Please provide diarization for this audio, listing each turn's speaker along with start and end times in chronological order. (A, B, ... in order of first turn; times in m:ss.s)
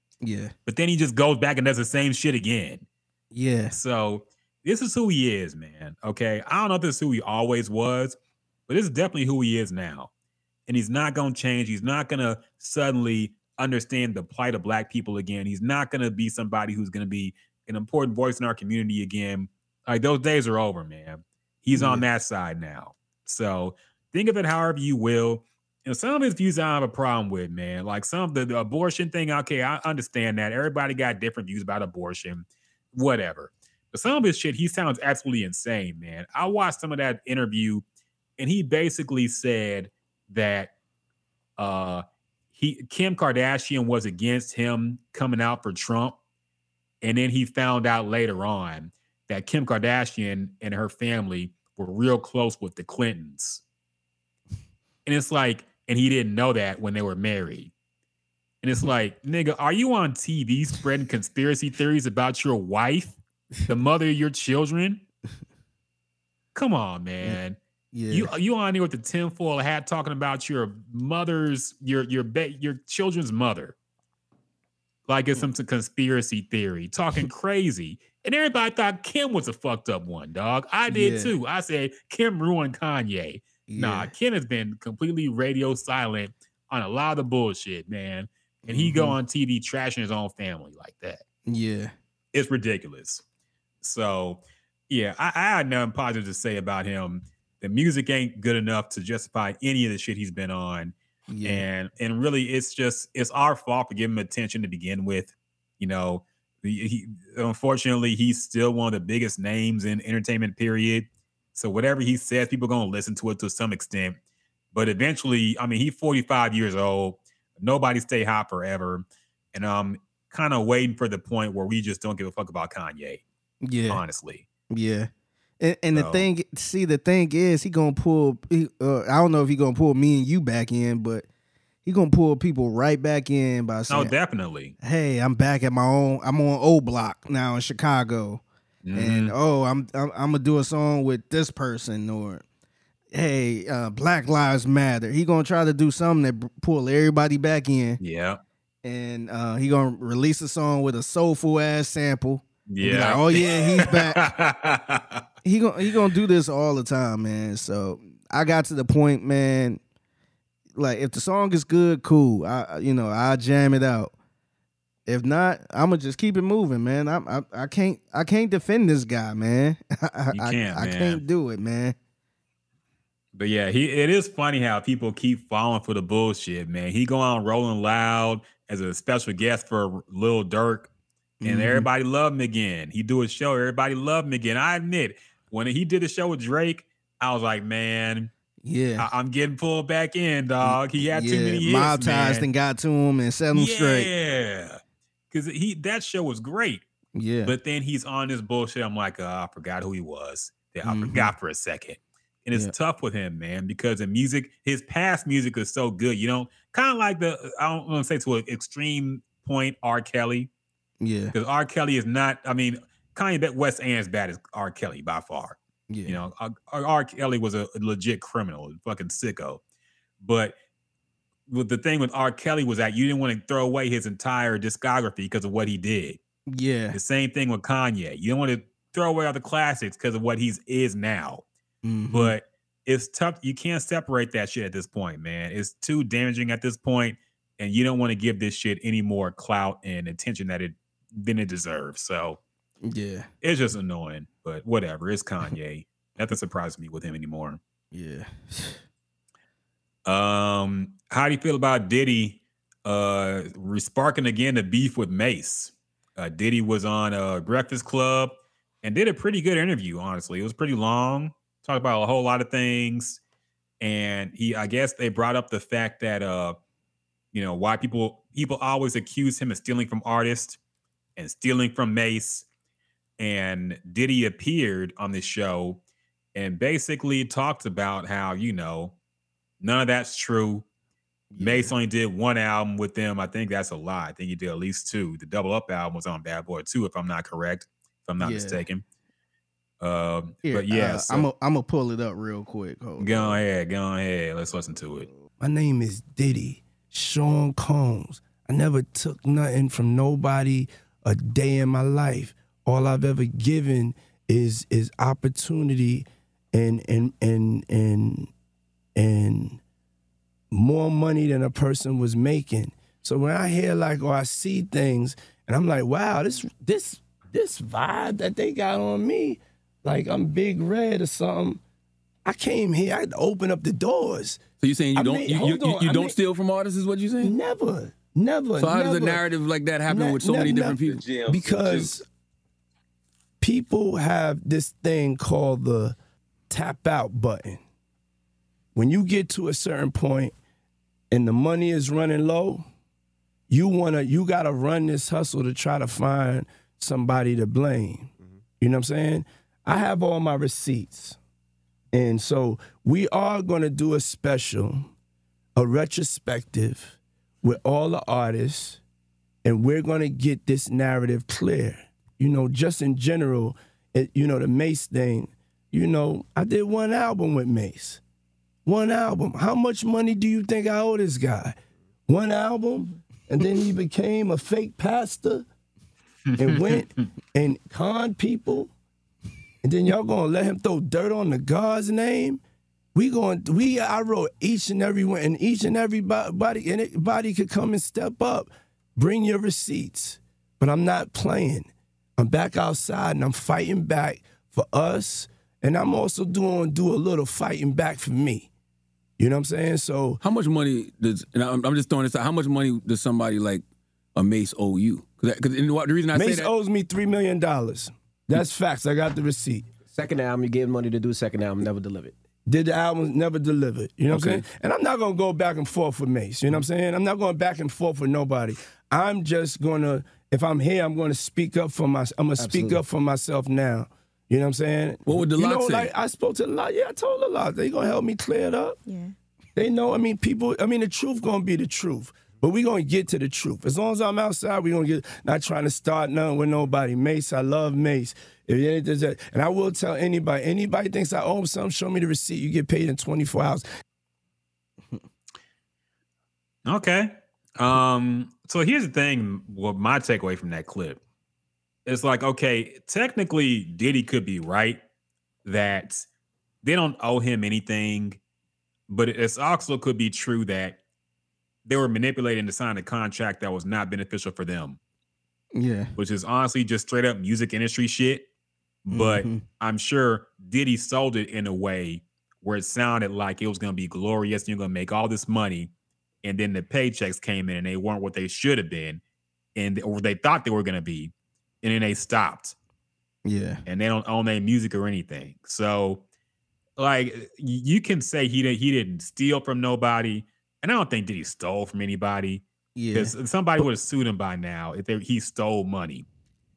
0:00.2-0:00.5 A
0:00.7-0:02.8 B
0:03.3-0:03.7 A
0:03.7-0:08.2 B
0:08.7-0:10.1 B
0:10.7-0:37.8 B
0:21.7-0:22.1 A
0:38.4-0:40.7 B
0:41.6-0:42.0 B
0:42.6-0:46.2 B
0:47.0-0:53.6 B
0:55.0-0:57.7 B
0:58.6-1:05.0 B
1:06.6-1:07.6 B
1:07.9-1:08.3 A
1:08.1-1:13.7 B
1:15.1-1:31.2 B
1:20.9-1:21.3 A
1:23.7-1:24.1 A
1:28.6-1:29.2 A
1:31.5-1:31.9 A
1:32.3-1:33.2 B
1:33.8-1:54.2 B
1:41.3-1:41.6 A
1:54.7-2:03.2 B
2:03.6-2:04.0 A
2:03.9-2:04.4 B
2:04.7-2:11.3 A
2:05.9-2:06.3 B
2:11.8-2:14.1 A
2:13.9-2:14.7 B
2:14.8-2:18.4 A
2:18.8-2:19.4 B
2:19.0-2:22.4 A
2:23.1-2:28.0 A
2:28.0-2:28.4 B
2:28.8-2:34.3 A
2:32.7-2:35.2 B
2:35.4-2:39.8 A
2:40.8-2:44.1 A
2:45.0-2:52.0 A
2:50.3-2:51.2 B
2:53.3-3:00.9 B
3:01.4-3:01.9 A
3:01.4-3:08.3 B
3:08.6-3:09.1 A
3:09.0-3:12.5 B
3:10.6-3:14.1 A
3:13.5-3:16.8 B
3:17.1-3:17.6 A
3:17.4-3:30.5 B
3:20.8-3:21.3 A
3:31.0-3:31.4 A
3:31.3-3:39.6 B
3:35.9-3:36.2 A
3:40.2-3:40.6 B
3:41.5-3:46.2 B
3:46.5-3:47.0 A
3:46.9-3:51.4 B
3:51.8-3:52.3 A
3:52.1-4:02.4 B
4:02.8-4:03.3 A
4:03.4-4:07.6 B
4:07.9-4:08.8 A
4:10.0-4:23.2 B
4:23.8-4:26.6 B
4:27.3-4:30.6 B
4:31.2-4:32.5 B
4:33.2-4:35.8 B
4:36.3-4:39.0 B
4:39.6-4:40.6 B
4:41.3-4:41.7 A
4:41.4-4:48.8 B
4:48.2-4:48.6 A
4:49.8-4:51.3 B
4:50.4-4:53.4 A
4:53.0-4:55.1 B
4:55.4-5:08.3 C
5:09.0-5:09.6 C
5:10.5-5:21.6 C
5:22.2-5:26.2 C
5:24.6-5:27.4 D
5:27.2-5:29.2 C
5:28.6-5:31.9 D
5:29.9-5:32.0 C
5:33.4-5:36.0 C
5:36.5-5:37.6 C
5:38.8-5:40.3 C
5:41.1-5:42.6 C
5:43.5-5:51.2 C
5:51.9-5:54.9 C
5:55.6-5:58.8 C
5:59.4-6:08.0 C
6:08.7-6:11.6 C
6:12.1-6:15.5 C
6:16.3-6:16.8 B
6:16.4-6:18.7 C
6:19.6-6:22.4 C
6:23.0-6:38.5 C
6:39.2-6:40.2 C
6:40.2-6:43.6 D
6:44.2-6:46.5 D
6:46.1-6:49.7 C
6:50.0-6:52.1 E
6:52.5-7:08.8 C
6:54.1-6:54.5 D
7:05.0-7:05.9 D
7:09.6-7:23.6 C
7:26.7-7:31.0 B
7:31.9-7:34.8 B
7:35.4-7:36.1 B
7:36.6-7:38.2 B
7:38.9-7:40.8 B
7:41.6-7:44.8 B
7:45.5-7:45.9 A
7:46.0-7:48.3 B
7:48.8-7:55.7 B
7:48.9-7:49.4 A
7:56.2-7:59.0 B
7:59.5-8:02.5 B
8:03.2-8:03.6 A
8:03.7-8:06.0 B
8:06.8-8:16.0 B
8:12.8-8:13.1 A